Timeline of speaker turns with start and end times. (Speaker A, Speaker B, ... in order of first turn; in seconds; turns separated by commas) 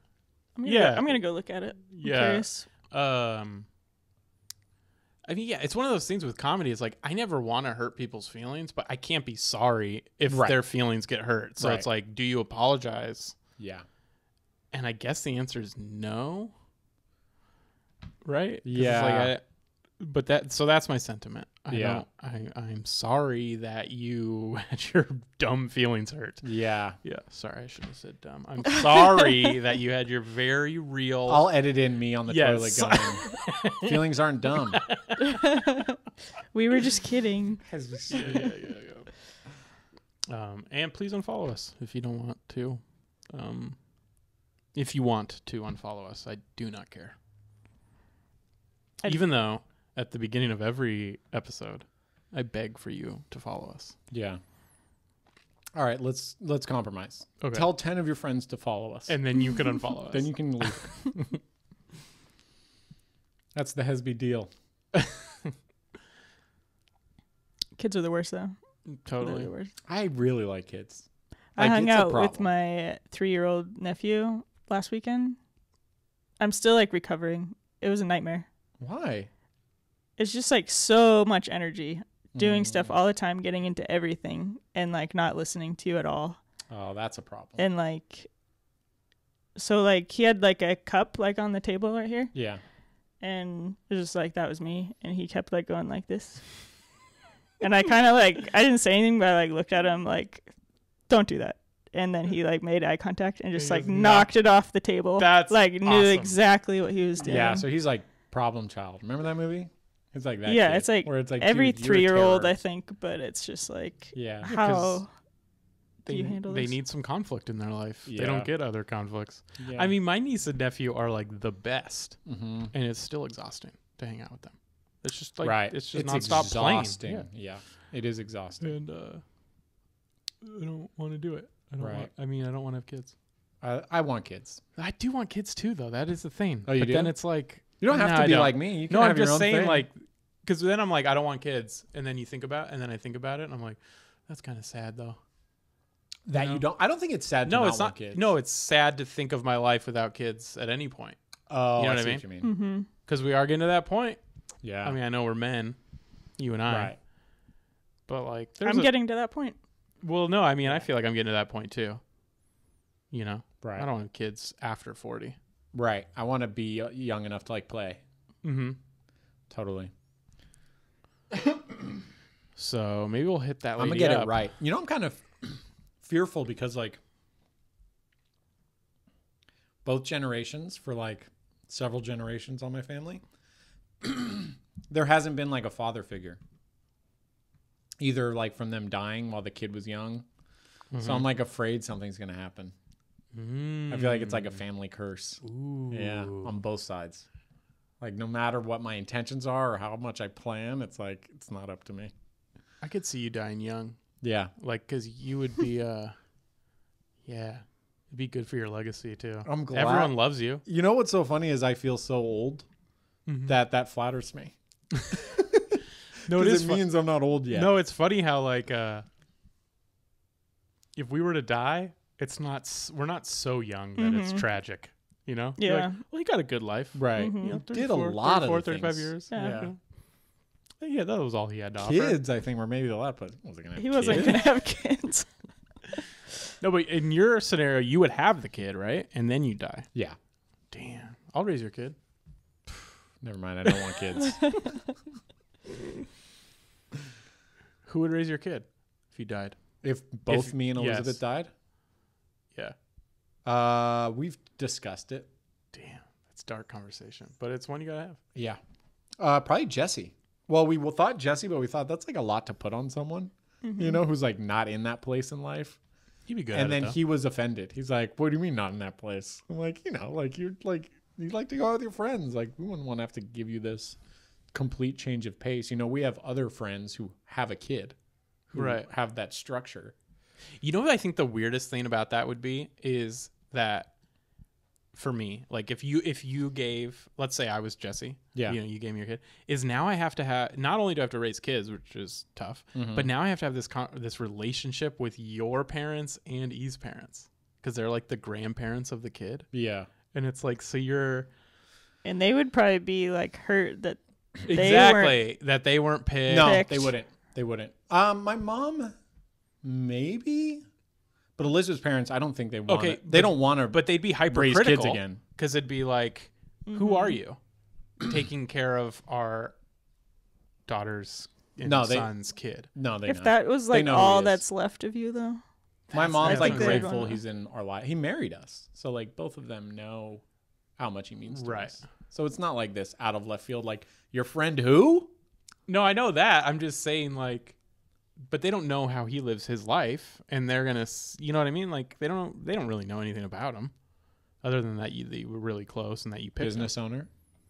Speaker A: 0.6-2.7, Speaker B: 0.6-3.6, Speaker B: 5.2-13.3, Speaker C: 10.3-10.6, Speaker C: 11.6-11.9, Speaker C: 13.6-13.8, Speaker B: 14.7-16.5, Speaker B: 18.2-19.4, Speaker C: 18.6-19.3, Speaker B: 20.0-31.5, Speaker C: 21.7-22.0, Speaker C: 26.4-27.0, Speaker C: 31.2-34.8, Speaker B: 32.3-35.3, Speaker A: 35.4-36.0, Speaker A: 36.5-37.6, Speaker C: 37.7-38.5, Speaker B: 38.1-39.1, Speaker B: 40.3-43.9, Speaker B: 44.7-47.1, Speaker B: 49.0-54.0, Speaker C: 54.1-54.4, Speaker C: 55.7-59.2, Speaker B: 57.4-57.7, Speaker B: 59.1-61.4, Speaker C: 60.1-61.0, Speaker C: 63.5-64.5, Speaker A: 67.8-68.5, Speaker B: 68.9-69.5, Speaker A: 69.2-69.7, Speaker C: 69.9-71.0, Speaker A: 71.5-75.4, Speaker C: 71.6-72.5, Speaker A: 76.4-78.5, Speaker C: 78.8-79.3, Speaker A: 80.2-86.4, Speaker C: 82.3-82.9, Speaker C: 86.7-87.6, Speaker A: 87.6-88.3, Speaker A: 89.5-92.3, Speaker C: 92.3-92.6, Speaker A: 93.2-96.7, Speaker A: 97.6-100.5, Speaker A: 101.1-107.6, Speaker B: 103.6-104.3, Speaker B: 105.2-106.4, Speaker C: 107.2-112.6, Speaker A: 110.5-115.1, Speaker C: 114.1-114.9, Speaker A: 116.0-116.8, Speaker B: 116.1-127.3, Speaker C: 118.0-118.5, Speaker C: 119.6-119.9, Speaker C: 122.2-122.7, Speaker C: 125.4-128.8, Speaker B: 128.6-129.2, Speaker B: 130.4-133.1, Speaker C: 131.8-132.1, Speaker C: 133.6-134.6, Speaker B: 134.8-145.2, Speaker C: 136.6-139.9, Speaker C: 146.2-148.3, Speaker B: 146.3-146.7, Speaker B: 147.4-151.2, Speaker C: 151.5-152.5, Speaker B: 151.7-152.2, Speaker A: 152.4-152.9, Speaker B: 152.8-154.2, Speaker C: 154.6-155.0, Speaker B: 154.8-155.8, Speaker B: 156.4-157.0, Speaker C: 156.7-156.9, Speaker B: 158.1-158.9, Speaker A: 158.6-159.6, Speaker B: 160.0-162.0, Speaker B: 163.1-165.4, Speaker C: 163.6-163.9, Speaker C: 165.7-168.0, Speaker B: 168.4-168.8, Speaker C: 169.5-169.9, Speaker B: 172.6-174.3, Speaker C: 173.8-177.0, Speaker C: 179.8-183.2, Speaker C: 184.0-186.4, Speaker C: 188.0-190.2, Speaker B: 190.9-191.2, Speaker C: 191.0-192.7, Speaker B: 193.3-194.5, Speaker C: 193.9-197.3, Speaker B: 195.4-196.5, Speaker C: 198.0-202.1, Speaker B: 202.8-204.0, Speaker C: 204.2-204.5, Speaker B: 204.6-206.1, Speaker B: 207.2-210.6, Speaker C: 209.4-212.7, Speaker B: 213.3-213.6, Speaker C: 213.4-214.5, Speaker C: 215.1-217.7, Speaker B: 216.2-216.9, Speaker B: 217.5-219.1, Speaker B: 220.9-229.8, Speaker A: 224.0-224.4, Speaker A: 225.6-226.0, Speaker C: 226.9-229.7, Speaker A: 227.1-227.6, Speaker A: 229.3-229.7, Speaker B: 230.8-232.2, Speaker C: 231.8-234.5, Speaker A: 233.8-235.4, Speaker B: 234.1-234.4, Speaker B: 236.6-239.9, Speaker B: 240.7-241.9, Speaker C: 243.2-244.8, Speaker B: 247.8-249.6, Speaker C: 249.8-251.5, Speaker B: 250.3-251.2, Speaker C: 253.4-255.3, Speaker B: 255.7-258.2, Speaker C: 259.2-265.8, Speaker A: 263.6-264.0, Speaker B: 266.3-267.0, Speaker C: 266.5-274.0, Speaker C: 274.5-277.9, Speaker C: 278.5-279.9, Speaker B: 278.5-278.9, Speaker B: 280.6-283.9, Speaker B: 284.9-299.5, Speaker C: 292.7-293.1, Speaker C: 299.5-299.9, Speaker B: 300.1-301.3, Speaker A: 302.0-305.2, Speaker B: 304.5-306.8, Speaker C: 306.3-308.9, Speaker A: 306.4-306.9, Speaker C: 309.6-310.6, Speaker C: 311.4-315.2, Speaker B: 312.7-317.4, Speaker A: 316.7-317.2, Speaker B: 318.0-319.5, Speaker B: 320.7-322.7, Speaker C: 321.6-322.1, Speaker C: 322.7-324.4, Speaker A: 323.1-325.4, Speaker B: 325.9-326.9, Speaker C: 325.9-330.2, Speaker A: 326.2-327.2, Speaker C: 330.8-335.1, Speaker B: 331.3-331.8, Speaker B: 335.7-337.6, Speaker B: 338.3-343.7, Speaker B: 344.4-346.7, Speaker C: 346.4-347.1